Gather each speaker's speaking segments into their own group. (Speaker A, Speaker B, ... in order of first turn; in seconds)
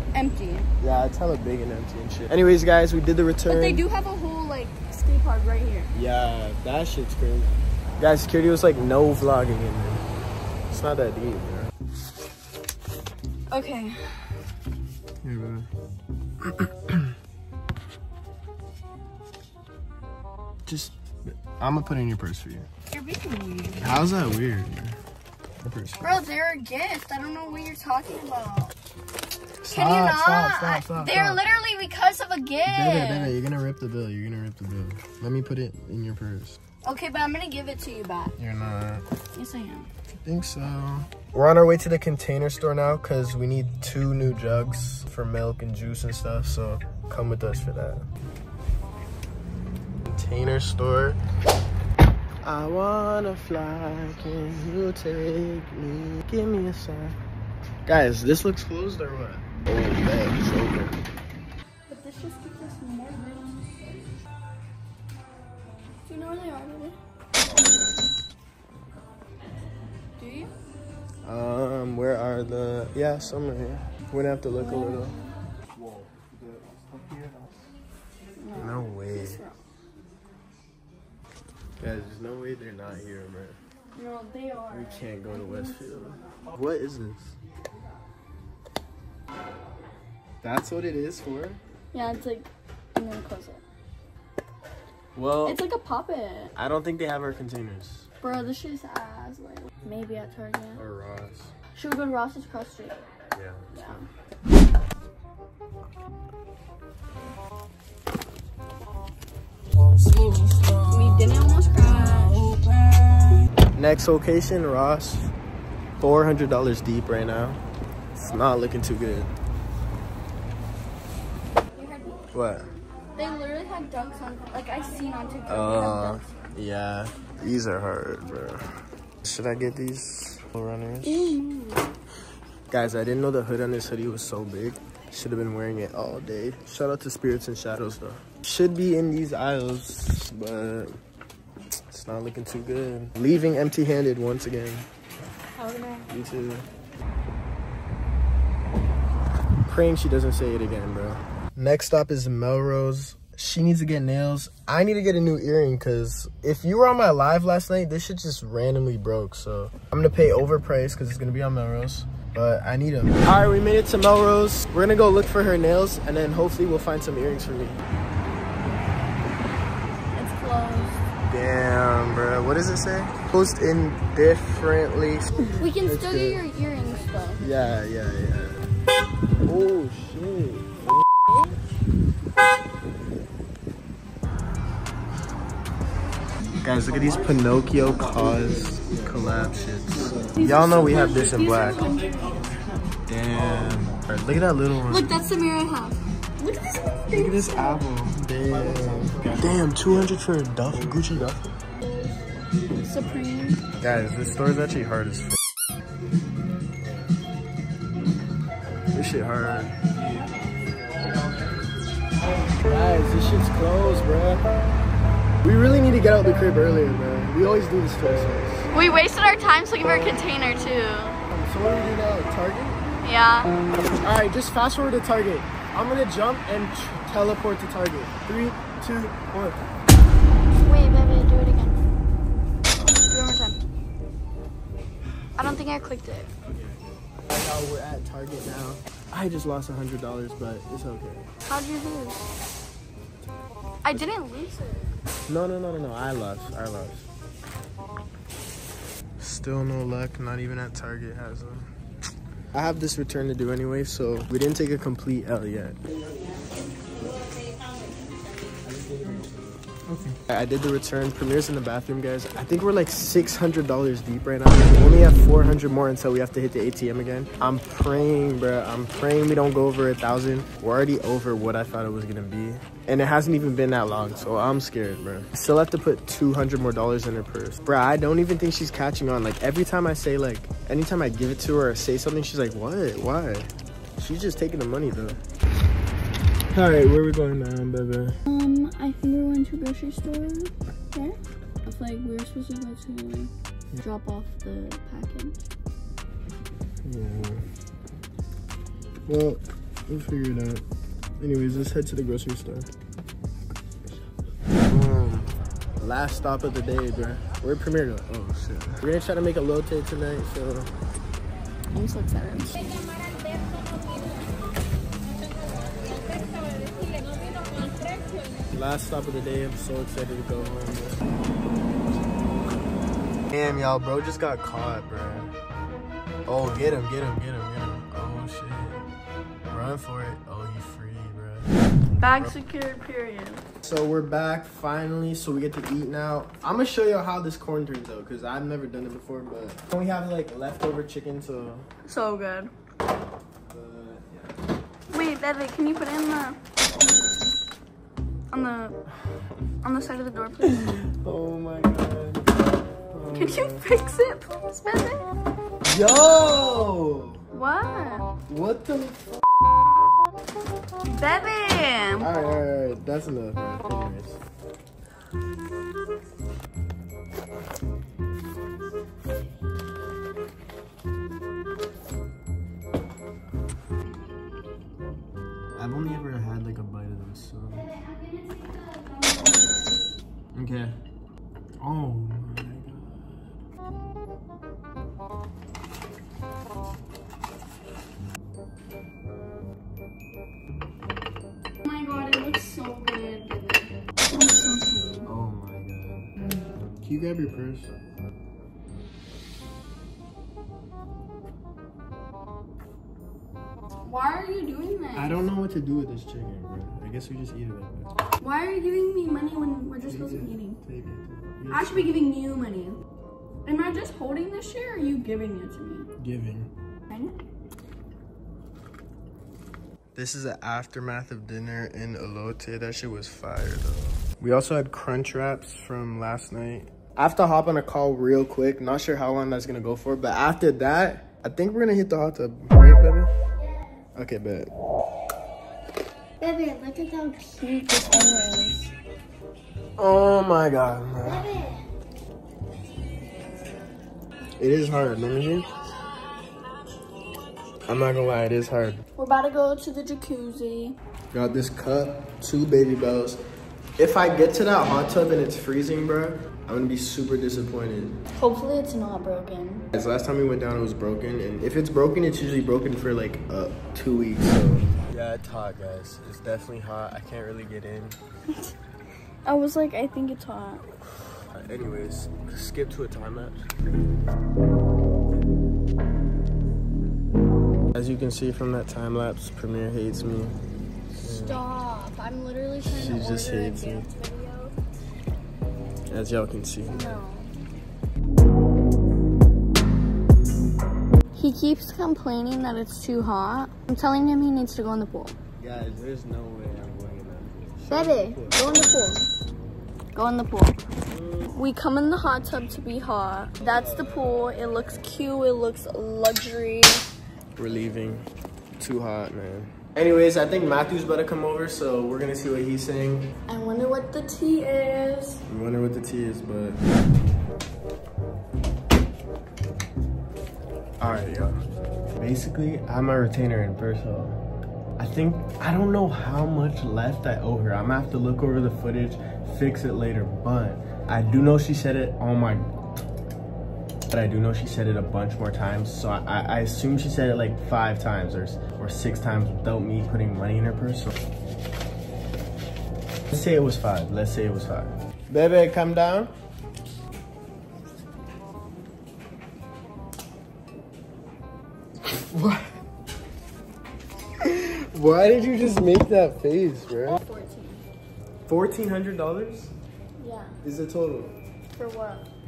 Speaker A: 0.1-0.7, 3.5-5.9, 13.5-14.4, 22.9-24.0, 26.0-28.7, 29.7-33.4, 36.8-38.3, 39.3-39.9, 61.9-64.1, 66.0-67.0, 70.2-70.5, 74.5-75.3, 78.4-79.6, 84.0-86.3, 91.9-93.6, 95.4-96.5, 98.2-100.8, 101.7-103.0, 103.7-104.0, 110.7-112.8, 121.8-122.3, 123.1-126.3, 131.0-131.9, 145.6-146.1, 170.1-171.0, 175.4-177.4, 181.3-181.6, 190.3-192.5, 194.8-197.8, 202.8-203.6, 208.0-208.3, 218.7-221.2, 223.0-223.5, 230.6-231.8, 233.0-233.6, 235.4-236.3, 241.4-242.3, 243.8-244.9, 257.3-257.6, 288.2-295.4, 311.7-312.6, 317.4-317.9, 331.9-333.4, 341.8-342.5, 344.9-346.4, 348.3-348.8, 349.6-350.7, 353.1-355.0, 357.3-358.1, 360.8-362.1, 377.6-380.0, 391.6-395.1, 403.8-405.2, 408.2-410.6, 411.5-412.8, 413.4-415.9, 416.9-417.1, 436.2-438.7, 449.0-450.8, 458.1-459.7, 469.2-470.6, 481.0-484.5, 486.6-487.3, 491.1-495.1, 497.7-499.0, 499.9-500.6, 501.3-506.9, 513.3-515.2, 556.9-557.6, 560.0-560.4, 561.5-562.1
Speaker B: 0.8-3.8, 5.9-10.0, 10.7-11.7, 15.2-15.7, 16.5-17.0, 20.6-22.7, 23.8-25.0, 25.6-26.2, 29.6-31.4, 32.7-36.6, 38.4-39.0, 40.2-48.0, 50.1-51.2, 52.4-57.1, 57.9-60.9, 71.2-75.2, 75.8-77.5, 78.6-79.4, 81.8-83.6, 84.7-87.3, 90.4-91.6, 95.1-95.6, 96.5-98.1, 100.8-101.5, 103.3-104.0, 113.8-115.3, 116.0-117.6, 118.2-119.3, 122.3-122.7, 125.5-128.6, 129.2-131.4, 132.7-141.0, 141.9-144.8, 146.1-146.7, 149.7-167.8, 171.3-176.4, 177.4-178.7, 179.4-181.0, 186.6-191.8, 193.1-195.1, 197.1-201.5, 203.8-205.4, 208.9-209.7, 212.5-214.4, 215.4-218.7, 221.3-222.8, 223.8-229.6, 236.4-241.2, 245.3-247.1, 249.2-251.7, 252.5-255.8, 258.6-285.2, 286.5-288.1, 296.8-297.4, 299.1-300.6, 301.2-302.7, 304.6-310.7, 318.5-321.0, 323.3-325.3, 326.3-328.8, 329.5-332.3, 333.6-341.6, 343.5-344.2, 350.4-352.2, 352.9-353.6, 355.6-357.2, 358.3-359.0, 362.0-364.2, 375.5-377.7, 380.3-380.8, 381.6-383.4, 395.1-396.1, 396.8-397.7, 404.9-407.9, 409.8-412.0, 416.0-416.5, 419.9-433.1, 433.9-434.5, 439.8-441.4, 444.4-445.4, 447.7-448.8, 451.1-453.2, 453.8-458.0, 459.7-468.0, 471.3-473.5, 477.7-480.4, 481.0-481.4, 482.6-483.9, 485.9-487.0, 495.4-498.7, 500.9-501.4, 503.4-504.4, 507.4-508.1, 508.6-513.1, 515.3-516.6, 520.8-521.4, 522.0-524.2, 524.8-532.5, 533.9-540.9, 543.1-546.1, 552.0-552.5, 554.2-557.0, 558.3-559.5, 560.4-561.1